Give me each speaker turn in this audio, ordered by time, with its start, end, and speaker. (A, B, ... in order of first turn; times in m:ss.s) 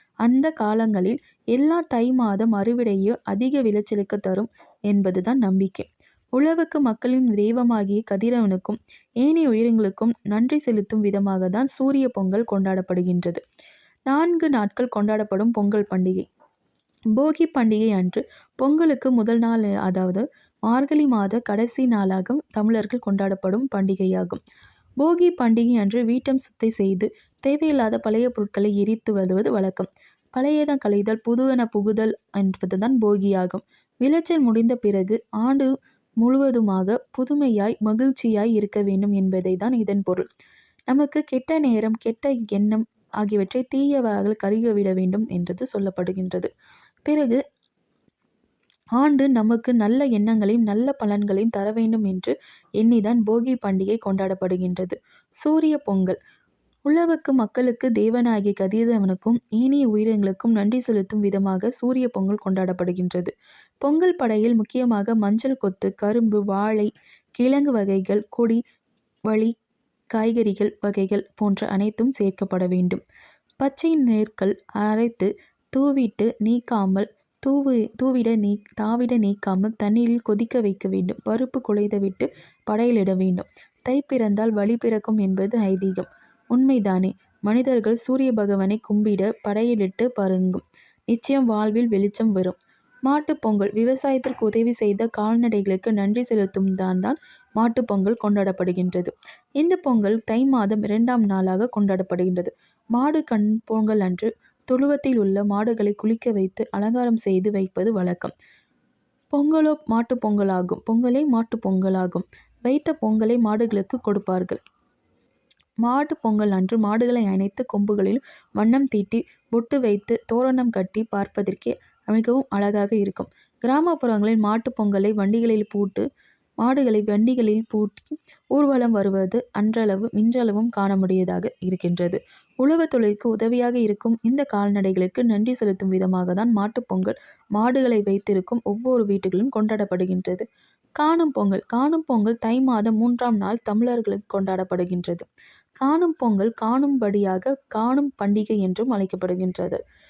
0:00.2-0:13.4 A
0:14.1-0:16.3 A
0:17.2-0:24.4 A
0:25.0-0:35.7 A
0:36.2-0:40.3 A
0:40.9-0:46.5 A
0:47.1-0:47.4 A
0:49.0-0:56.2 A
0:56.9-1:08.6 A
1:10.1-1:13.0 A
1:13.6-1:48.3 A
1:49.3-1:54.6 A
1:55.8-2:06.0 A
2:06.6-2:20.4 A
2:21.0-2:25.2 A
2:25.8-2:29.8 A